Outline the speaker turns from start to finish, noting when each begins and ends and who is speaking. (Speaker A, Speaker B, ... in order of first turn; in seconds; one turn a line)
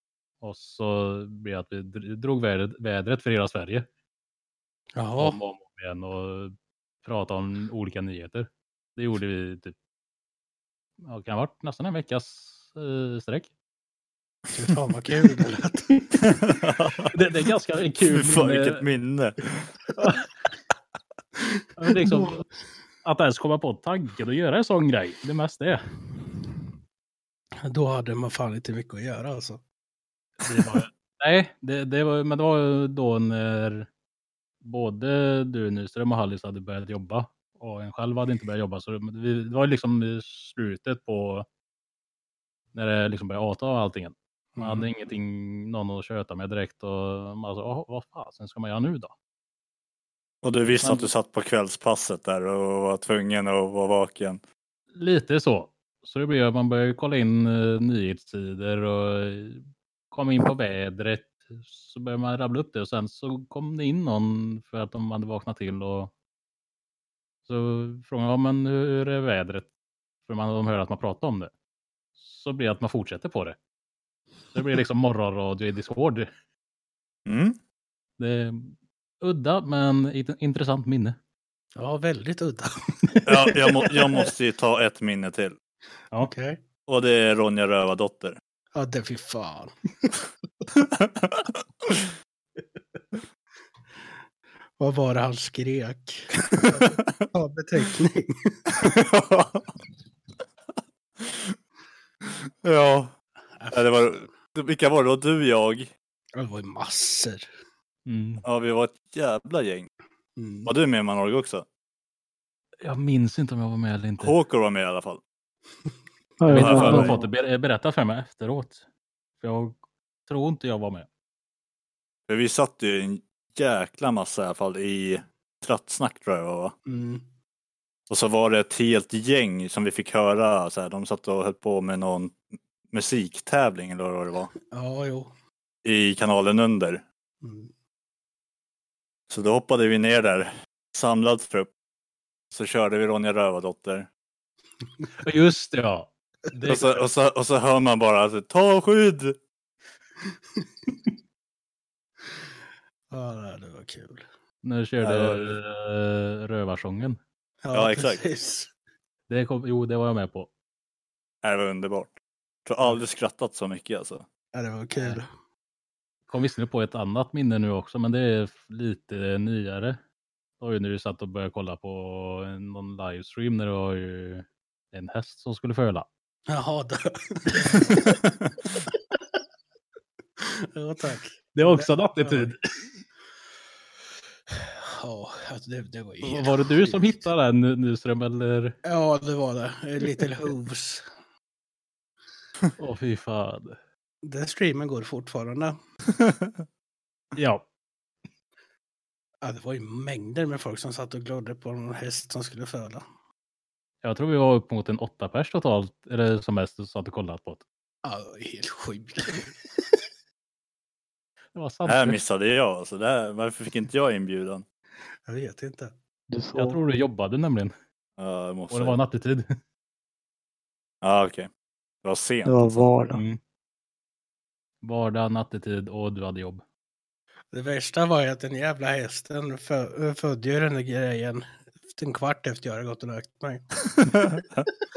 Speaker A: 0.4-3.9
Speaker B: 5.0-5.4
Speaker A: 5.2-9.8
Speaker A: 11.1-13.5
Speaker B: 14.5-16.0
Speaker C: 16.2-17.1
Speaker A: 17.1-18.8
Speaker C: 18.1-19.7
Speaker A: 20.0-20.3
Speaker A: 21.8-22.5
Speaker B: 21.9-22.3
Speaker A: 23.0-25.8
Speaker B: 27.6-29.6
Speaker A: 30.4-33.9
Speaker A: 34.6-41.5
Speaker A: 42.7-49.1
Speaker B: 44.5-44.9
Speaker C: 50.4-54.4
Speaker A: 50.8-51.1
Speaker A: 54.9-66.1
Speaker A: 67.5-69.7
Speaker A: 70.3-71.5
Speaker A: 72.2-73.6
Speaker A: 74.5-76.3
Speaker C: 77.3-77.6
Speaker A: 78.2-81.2
Speaker B: 81.8-84.0
Speaker C: 83.3-85.6
Speaker B: 86.2-86.6
Speaker C: 86.9-88.4
Speaker B: 88.7-90.2
Speaker C: 90.8-91.4
Speaker B: 94.8-98.8
Speaker C: 96.5-97.1
Speaker C: 98.8-99.7
Speaker C: 101.2-101.6
Speaker C: 102.3-103.1
Speaker B: 103.5-104.3
Speaker C: 103.7-105.9
Speaker B: 106.4-107.5
Speaker A: 108.1-108.4
Speaker C: 108.4-109.9
Speaker B: 110.4-110.7
Speaker C: 110.7-111.7
Speaker A: 112.8-114.3
Speaker C: 114.2-115.2
Speaker D: 116.4-117.2
Speaker B: 116.5-117.3
Speaker A: 116.5-118.8
Speaker C: 116.6-117.0
Speaker A: 119.4-121.1
Speaker C: 122.3-126.8
Speaker B: 126.9-127.2
Speaker C: 128.1-134.5
Speaker B: 134.7-135.3
Speaker C: 135.8-137.0
Speaker B: 137.4-137.7
Speaker C: 139.3-141.7
Speaker C: 142.5-144.1
Speaker B: 144.8-145.1
Speaker A: 145.2-147.1
Speaker C: 146.7-149.4
Speaker B: 150.6-151.0
Speaker B: 153.1-154.3
Speaker A: 154.6-157.2
Speaker C: 155.0-155.6
Speaker B: 157.6-158.7
Speaker C: 157.7-158.2
Speaker A: 159.3-160.5
Speaker C: 161.4-164.3
Speaker B: 164.5-165.3
Speaker A: 164.9-165.2
Speaker A: 166.3-170.0
Speaker A: 170.6-176.1
Speaker B: 176.5-178.8
Speaker B: 180.4-182.5
Speaker A: 181.6-183.0
Speaker B: 184.5-187.3
Speaker A: 186.2-188.8
Speaker B: 188.8-191.0
Speaker A: 192.8-193.8
Speaker B: 194.2-195.8
Speaker C: 196.2-196.6
Speaker A: 197.3-197.7
Speaker B: 199.4-203.1
Speaker A: 204.0-207.6
Speaker B: 208.0-209.9
Speaker A: 211.5-212.2
Speaker C: 211.9-214.6
Speaker B: 215.3-215.9
Speaker D: 216.3-216.8
Speaker A: 216.6-217.7
Speaker C: 218.2-219.0
Speaker A: 218.7-219.5
Speaker C: 221.0-221.5
Speaker C: 222.0-222.9
Speaker D: 222.4-223.2
Speaker A: 223.1-223.4
Speaker A: 224.8-226.6
Speaker B: 227.5-234.2
Speaker C: 234.3-234.6